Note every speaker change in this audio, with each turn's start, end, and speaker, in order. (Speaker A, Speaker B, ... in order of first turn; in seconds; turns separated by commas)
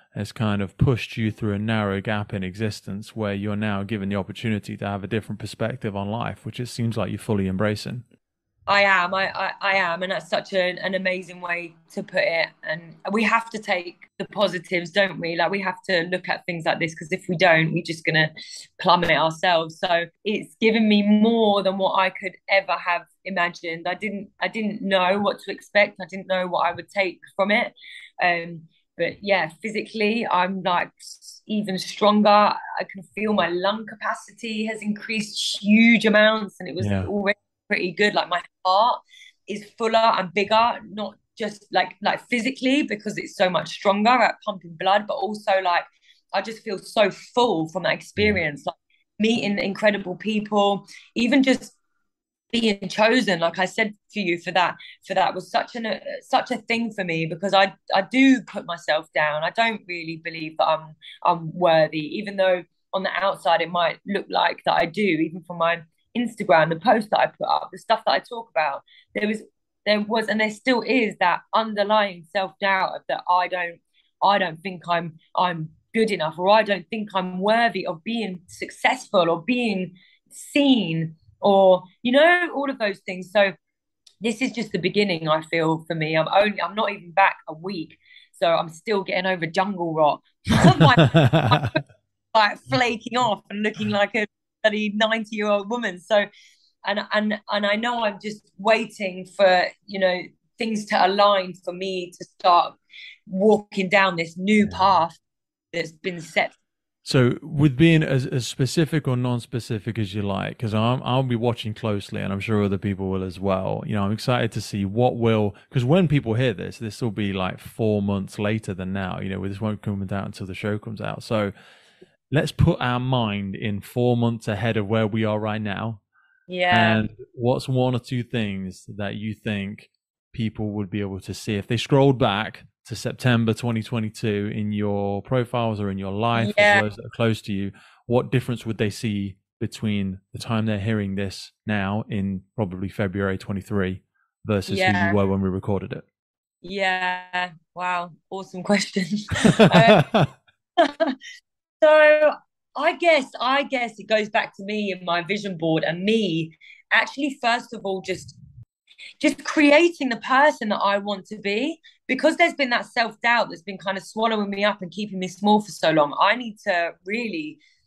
Speaker A: 0.1-8.0, Speaker B: 8.7-51.8, Speaker A: 36.8-37.1, Speaker B: 52.5-83.5, Speaker B: 84.2-91.8, Speaker A: 90.6-91.8, Speaker B: 92.3-96.3, Speaker B: 96.8-105.2, Speaker B: 105.7-106.6, Speaker A: 107.0-121.5, Speaker A: 122.3-126.0, Speaker B: 126.5-127.0, Speaker A: 126.7-146.1, Speaker B: 136.3-136.8, Speaker B: 144.7-145.2, Speaker B: 146.6-150.1, Speaker A: 149.4-150.3, Speaker B: 150.8-151.2, Speaker B: 151.8-158.4, Speaker B: 159.2-167.6